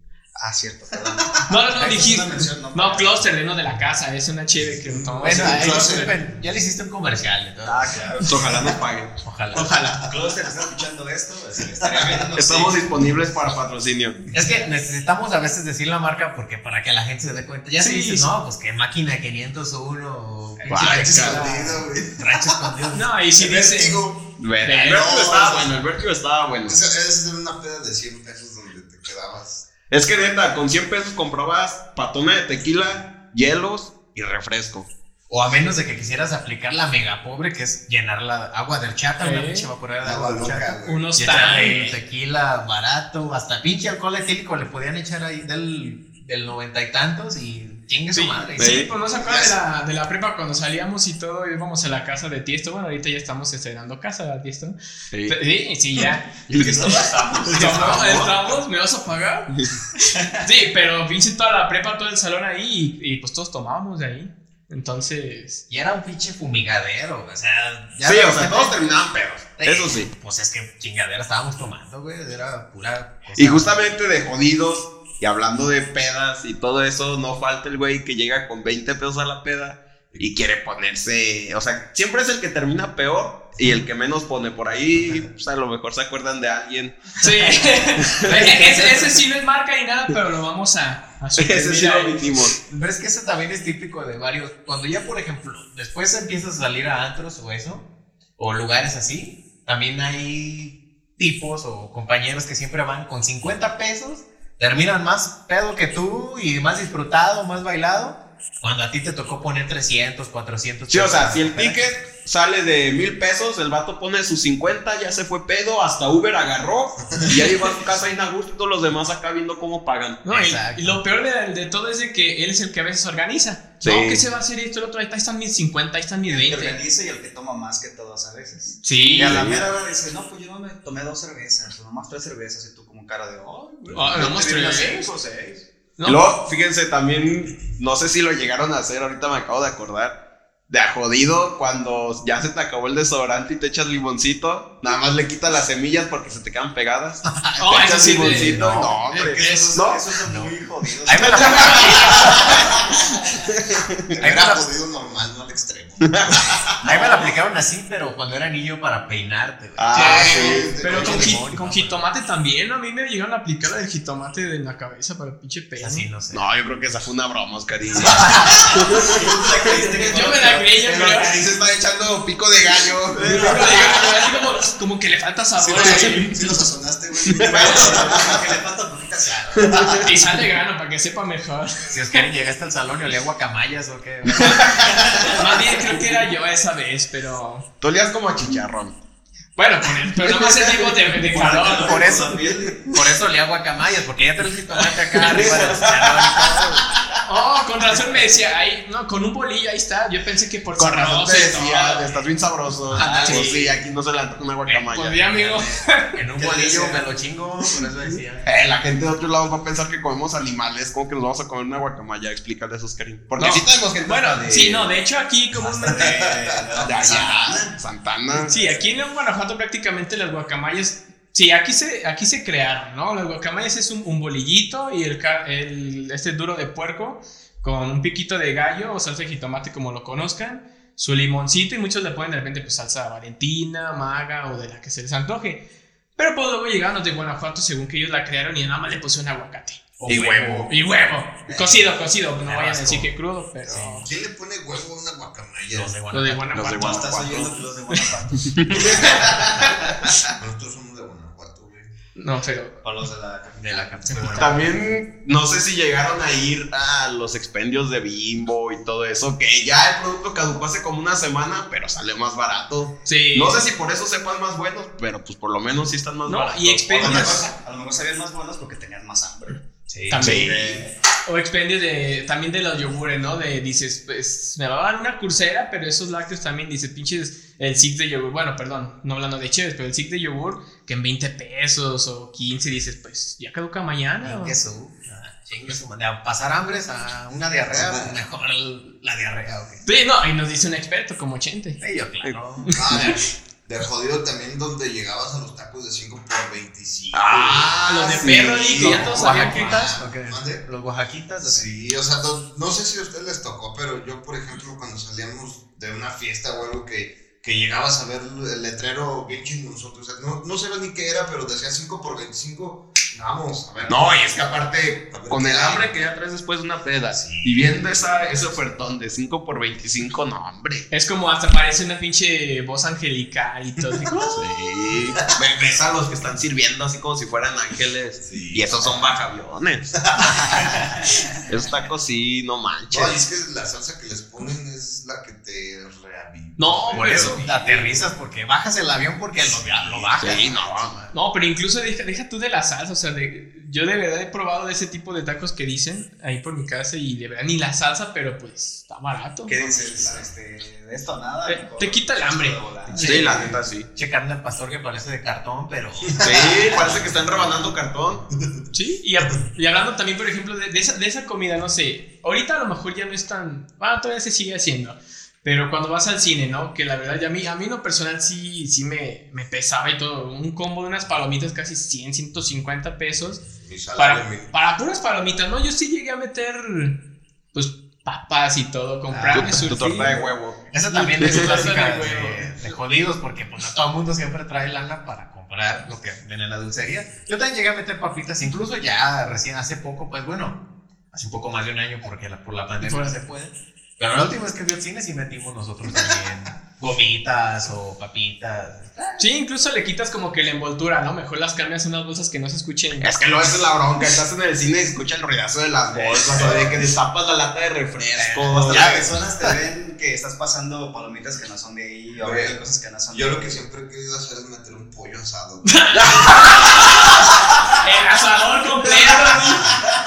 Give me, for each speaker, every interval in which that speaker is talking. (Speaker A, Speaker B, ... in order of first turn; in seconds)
Speaker A: 0.4-3.3, 7.8-8.8, 9.5-13.2, 56.5-57.9, 60.1-60.5, 126.3-135.6, 149.0-152.8, 168.1-170.8, 177.4-180.0, 184.7-185.3, 191.1-193.0, 202.9-203.7, 206.4-207.1, 215.6-217.8, 246.7-249.6, 252.8-254.8, 266.9-269.6, 270.2-270.9, 330.7-331.1, 349.5-353.2, 408.5-413.6
Speaker B: 1.0-1.5, 4.8-6.2, 9.5-10.0, 11.8-12.3, 20.7-25.8, 26.6-29.6, 40.0-41.1, 49.0-49.6, 117.1-117.4, 154.1-157.1, 160.0-161.4, 175.6-178.5, 215.9-216.6, 244.0-245.9, 248.8-251.9, 287.7-288.2, 292.7-300.7, 301.4-314.5, 315.1-315.9, 317.1-318.5, 328.2-329.2, 330.0-330.8, 332.9-338.1, 339.4-340.8, 349.6-350.3, 356.1-357.1, 373.5-374.5, 406.1-406.8, 412.2-412.5, 413.1-417.2, 419.0-419.7
Speaker C: 1.5-6.2, 17.8-18.3, 20.6-21.8, 22.9-24.0, 24.6-25.0, 39.2-39.7, 40.8-42.0, 48.1-54.8, 55.3-56.3, 57.5-59.5, 60.4-65.6, 87.2-92.2, 120.2-126.8, 128.8-129.4, 133.9-135.1, 136.0-136.2, 147.6-148.6, 151.3-152.4, 159.9-166.1, 170.1-171.4, 173.2-176.3, 177.7-178.0, 180.0-182.3, 185.2-187.7, 189.6-192.1, 195.2-195.5, 197.2-202.1, 203.0-203.6, 204.9-206.2, 213.4-216.2, 218.3-235.6, 236.2-239.8, 240.7-244.1, 246.1-247.1, 252.1-252.8, 263.1-263.6, 266.2-267.5, 270.1-270.6, 271.2-284.6, 289.8-291.8, 292.6-293.1, 297.8-299.9, 320.9-324.4, 336.6-337.5, 341.1-349.5, 351.4-353.3, 358.7-380.1, 380.9-382.7, 392.8-393.1, 399.2-403.2, 415.6-417.0, 417.8-419.8
Speaker D: 5.2-8.0, 9.2-10.0, 14.3-21.5, 22.1-23.0, 35.3-48.9, 56.6-58.3, 65.7-68.9, 69.6-73.7, 88.2-89.2, 92.6-97.9, 98.4-111.9, 120.3-121.0, 147.4-149.0, 150.3-150.5, 151.0-152.6, 154.2-154.6, 156.8-162.0, 165.8-166.4, 181.9-185.3, 191.3-196.9, 202.9-203.5, 204.7-208.4, 240.0-240.7, 242.4-243.1, 243.7-244.0, 245.7-246.4, 253.5-254.6, 269.9-270.4, 284.2-289.8, 291.8-292.7, 298.8-301.7, 336.9-341.1, 353.0-357.5, 379.1-380.2, 380.7-390.6, 391.1-399.2, 408.2-409.0
Speaker E: 7.6-9.2, 12.3-14.2, 20.7-21.4, 24.4-26.8, 29.9-34.9, 48.6-48.9, 55.1-55.4, 56.5-58.4, 68.0-70.1, 73.3-88.6, 91.3-92.6, 110.9-120.2, 123.8-124.2, 129.2-129.7, 134.1-150.0, 153.6-154.2, 156.0-156.5, 159.8-160.7, 166.3-169.2, 170.8-174.1, 175.7-176.5, 179.5-180.2, 184.8-185.7, 187.8-189.0, 190.3-190.6, 195.2-196.6, 200.8-205.3, 208.4-214.9, 216.8-218.6, 240.1-240.7, 246.5-247.6, 248.4-249.1, 254.2-267.5, 270.2-270.8, 297.1-299.4, 313.9-320.9, 324.2-330.6, 331.4-333.2, 340.2-341.0, 353.0-353.9, 356.2-358.2, 379.3-380.6, 381.2-381.6, 403.0-409.1, 416.0-417.0